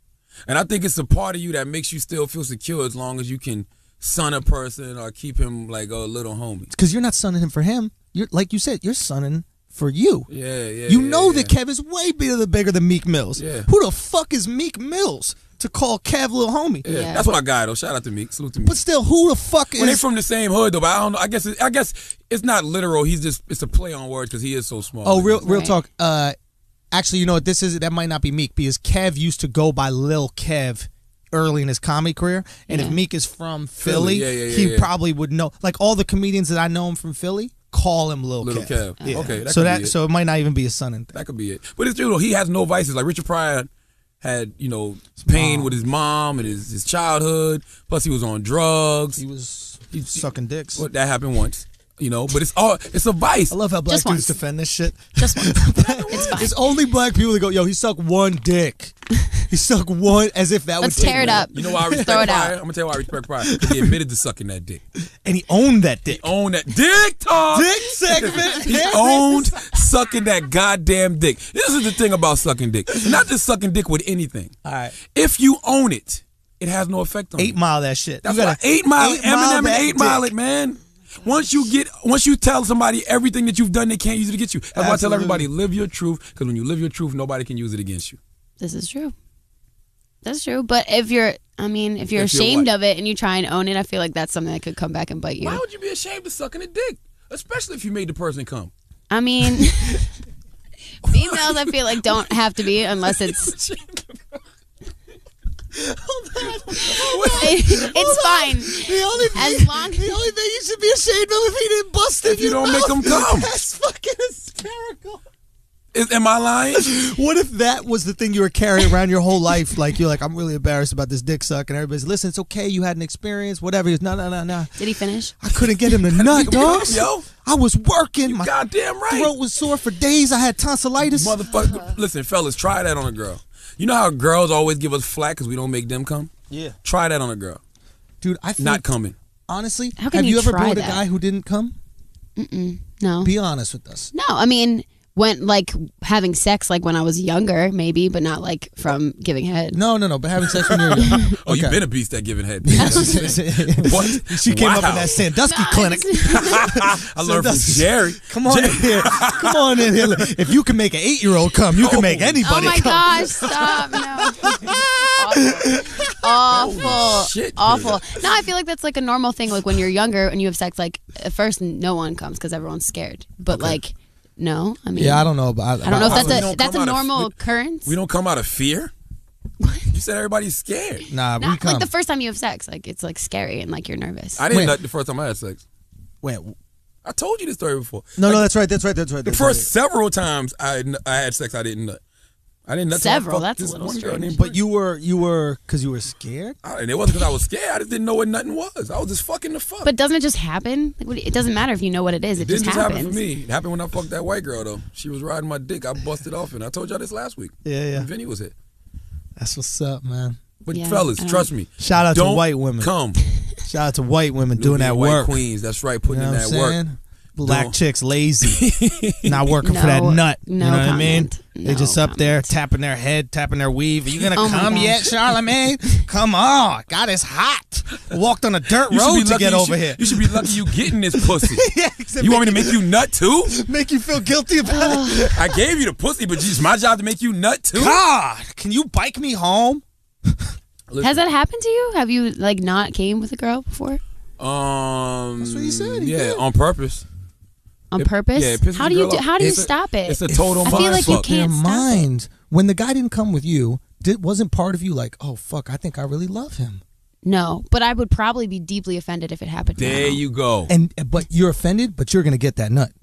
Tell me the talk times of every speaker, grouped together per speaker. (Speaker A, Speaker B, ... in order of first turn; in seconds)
Speaker A: 0.5-6.7, 10.3-11.5, 13.4-13.7, 16.8-18.8, 19.7-25.4, 33.8-34.9, 38.4-39.9, 41.1-43.7, 44.2-49.2, 49.9-50.2, 50.8-53.5, 55.8-56.6, 60.9-64.8, 66.1-74.5, 75.1-77.5, 78.2-88.2, 92.1-92.7, 95.4-98.7, 101.0-104.4, 106.7-107.9, 112.2-113.5, 115.9-116.8, 126.1-127.3, 128.2-129.3, 131.0-136.3, 136.8-137.6, 138.6-139.2, 150.5-155.2, 156.3-160.3, 161.7-164.0, 166.4-168.2, 173.5-173.8, 175.9-178.9, 179.9-181.1, 184.3-185.6, 187.0-188.4, 189.2-192.0, 192.7-194.5, 196.6-199.9, 202.4-208.5, 210.6-213.2, 214.6-216.8, 217.4-217.8, 218.4-219.4, 228.8-231.7, 232.2-233.6, 235.3-238.0, 240.9-241.2, 244.4-247.0, 248.0-251.3, 259.8-260.7
Speaker B: 6.7-10.3, 10.9-16.8, 18.6-20.0, 25.0-26.4, 26.9-41.1, 45.2-45.8, 49.2-50.8, 53.5-59.0, 59.5-62.3, 63.4-64.0, 65.0-66.3, 67.5-69.6, 74.6-74.9, 77.4-80.3, 84.7-85.5, 105.7-115.2, 116.7-124.8, 125.4-128.5, 129.1-131.4, 136.5-136.7, 138.2-138.8, 139.5-141.8, 143.2-144.1, 149.7-151.8, 152.6-163.3, 164.4-167.1, 174.9-176.5, 181.1-181.9, 184.5-184.8, 186.2-186.6, 188.2-189.7, 194.3-196.6, 207.6-208.1, 209.4-210.4, 211.8-212.9, 213.7-215.4, 216.1-218.7, 219.2-232.8, 233.5-235.6, 237.7-240.6, 245.4-246.4, 250.3-256.8, 260.7-262.9
Speaker C: 16.8-17.2, 25.4-25.8, 32.7-33.0, 39.0-39.4, 53.9-54.3, 55.2-56.5, 60.8-62.5, 88.6-89.1, 90.2-95.6, 99.1-100.0, 101.0-103.5, 107.4-110.2, 124.8-125.3, 131.6-131.9, 140.0-141.0, 142.4-143.3, 144.1-149.8, 152.8-153.3, 155.4-156.6, 162.4-175.3, 175.8-177.9, 179.6-179.9, 181.4-184.4, 192.9-194.4, 199.8-203.2, 210.7-211.5, 219.6-222.5, 224.3-225.1, 234.7-235.3, 241.0-244.0, 247.9-252.0, 257.2-260.2